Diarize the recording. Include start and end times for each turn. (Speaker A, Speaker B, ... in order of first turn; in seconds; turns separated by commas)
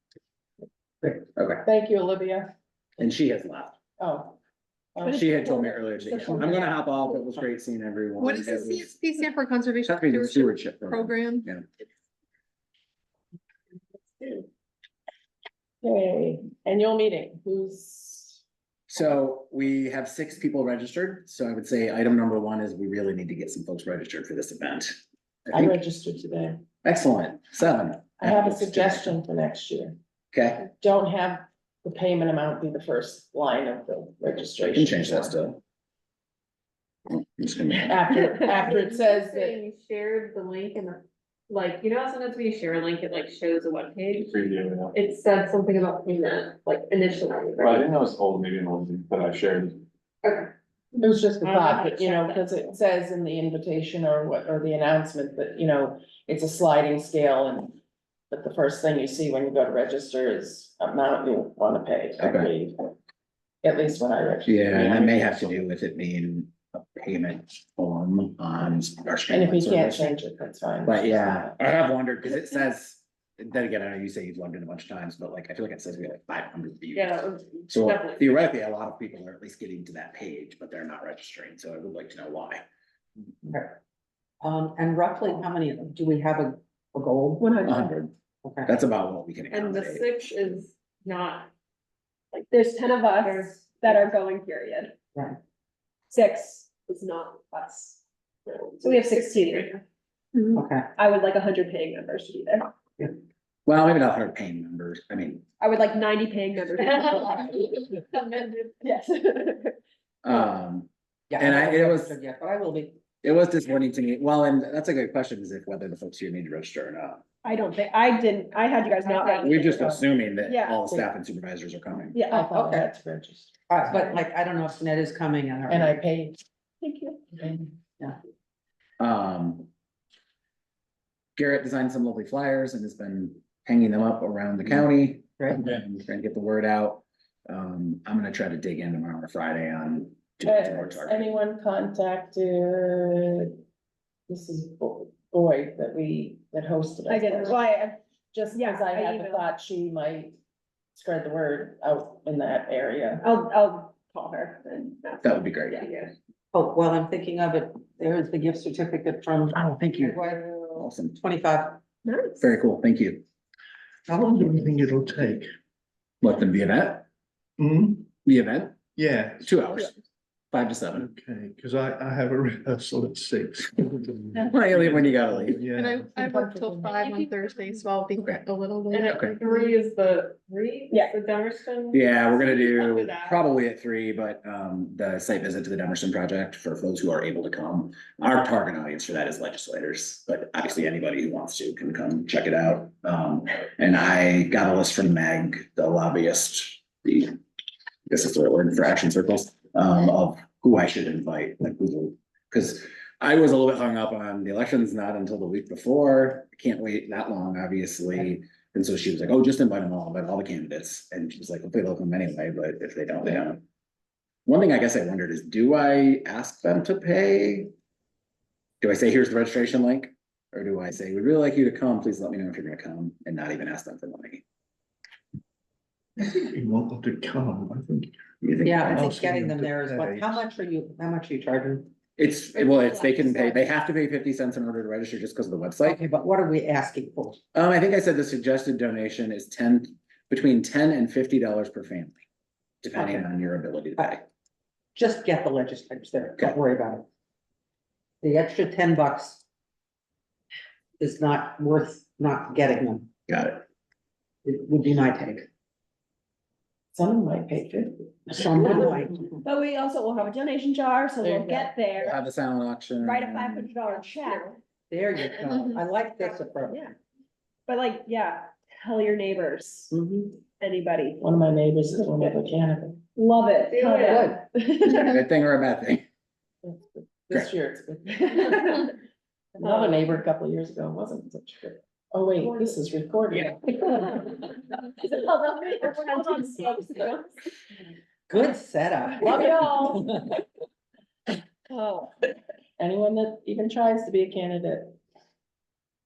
Speaker A: 1.4-1.6, Speaker B: 1.6-2.5, Speaker A: 3.0-3.8, Speaker B: 4.0-4.4, Speaker B: 5.0-6.5, Speaker A: 5.0-8.9, Speaker C: 8.2-11.5, Speaker A: 9.8-11.7, Speaker B: 15.8-18.4, Speaker A: 18.9-25.8, Speaker B: 25.5-26.6, Speaker A: 26.8-29.1, Speaker B: 28.2-30.0, Speaker A: 30.3-30.7, Speaker B: 30.7-35.4, Speaker A: 34.7-35.6, Speaker A: 37.1-38.1, Speaker B: 37.7-39.6, Speaker D: 38.5-44.3, Speaker E: 44.1-44.9, Speaker D: 45.0-47.8, Speaker E: 47.6-49.9, Speaker B: 51.0-57.8, Speaker D: 51.4-52.7, Speaker B: 58.3-62.9, Speaker A: 62.2-62.5, Speaker B: 63.6-65.6, Speaker A: 64.5-70.2, Speaker B: 69.3-71.6, Speaker A: 70.9-82.6, Speaker D: 76.9-78.3, Speaker F: 83.5-83.7, Speaker F: 84.4-87.5, Speaker G: 87.4-87.9, Speaker A: 87.6-88.1, Speaker F: 88.4-88.7, Speaker A: 88.7-90.6, Speaker D: 89.5-91.5, Speaker G: 92.5-94.9, Speaker D: 93.1-93.6, Speaker G: 96.1-98.0, Speaker D: 98.5-99.7, Speaker G: 98.8-99.8, Speaker F: 100.5-100.9, Speaker G: 101.0-102.7, Speaker A: 103.7-105.5, Speaker G: 105.6-107.9, Speaker C: 107.6-108.8, Speaker G: 108.8-109.8, Speaker A: 110.2-112.2, Speaker F: 111.3-113.0, Speaker A: 113.2-117.2, Speaker G: 117.4-120.8, Speaker C: 119.2-119.6, Speaker A: 119.4-122.2, Speaker B: 119.7-120.0, Speaker G: 122.1-122.5, Speaker B: 122.3-123.8, Speaker F: 122.5-122.9, Speaker F: 123.7-126.0, Speaker B: 125.7-126.4, Speaker G: 126.8-127.3, Speaker A: 129.0-129.7, Speaker A: 131.4-141.3, Speaker B: 140.4-143.6, Speaker B: 144.3-147.6, Speaker G: 147.1-148.0, Speaker B: 148.3-150.4, Speaker G: 148.5-149.5, Speaker B: 151.0-153.3, Speaker G: 153.2-156.1, Speaker A: 155.2-155.9, Speaker F: 156.5-160.4, Speaker A: 160.8-161.2, Speaker F: 161.2-161.8, Speaker G: 162.1-162.4, Speaker A: 162.4-163.2, Speaker H: 164.1-165.5, Speaker A: 166.2-167.1, Speaker H: 167.6-168.1, Speaker A: 168.2-168.8, Speaker H: 169.0-169.6, Speaker A: 169.4-170.0, Speaker A: 170.5-171.1, Speaker H: 170.9-176.2, Speaker A: 174.4-175.6, Speaker C: 175.7-179.8, Speaker A: 178.2-178.4, Speaker D: 178.9-183.4, Speaker A: 179.1-179.3, Speaker A: 181.9-197.4, Speaker A: 198.1-213.6, Speaker A: 214.5-217.7, Speaker A: 218.8-224.4, Speaker H: 226.3-228.1, Speaker A: 228.4-229.1, Speaker F: 228.6-231.9, Speaker H: 228.8-230.4, Speaker A: 232.2-236.0, Speaker F: 235.8-237.4, Speaker A: 237.5-242.2, Speaker A: 242.8-244.2, Speaker F: 242.9-243.3, Speaker F: 244.9-247.1, Speaker F: 248.2-249.4, Speaker F: 251.0-253.1, Speaker A: 253.3-253.6, Speaker F: 254.4-255.5, Speaker B: 256.9-258.9, Speaker F: 258.3-259.3, Speaker G: 259.4-262.2, Speaker B: 261.2-261.7, Speaker A: 262.0-263.7, Speaker G: 263.0-264.6, Speaker F: 264.9-266.9, Speaker G: 266.6-266.9, Speaker G: 267.7-269.9, Speaker F: 269.9-270.4, Speaker G: 270.6-271.2, Speaker B: 271.2-273.0, Speaker G: 273.2-275.2, Speaker D: 273.7-274.2, Speaker B: 273.8-274.4, Speaker A: 274.9-276.1, Speaker B: 276.6-278.9, Speaker G: 278.4-278.9, Speaker B: 279.6-284.3, Speaker G: 279.6-280.1, Speaker G: 282.4-282.7, Speaker G: 284.3-287.3, Speaker B: 285.7-286.4, Speaker F: 288.3-290.1, Speaker B: 289.2-290.1, Speaker B: 292.8-295.0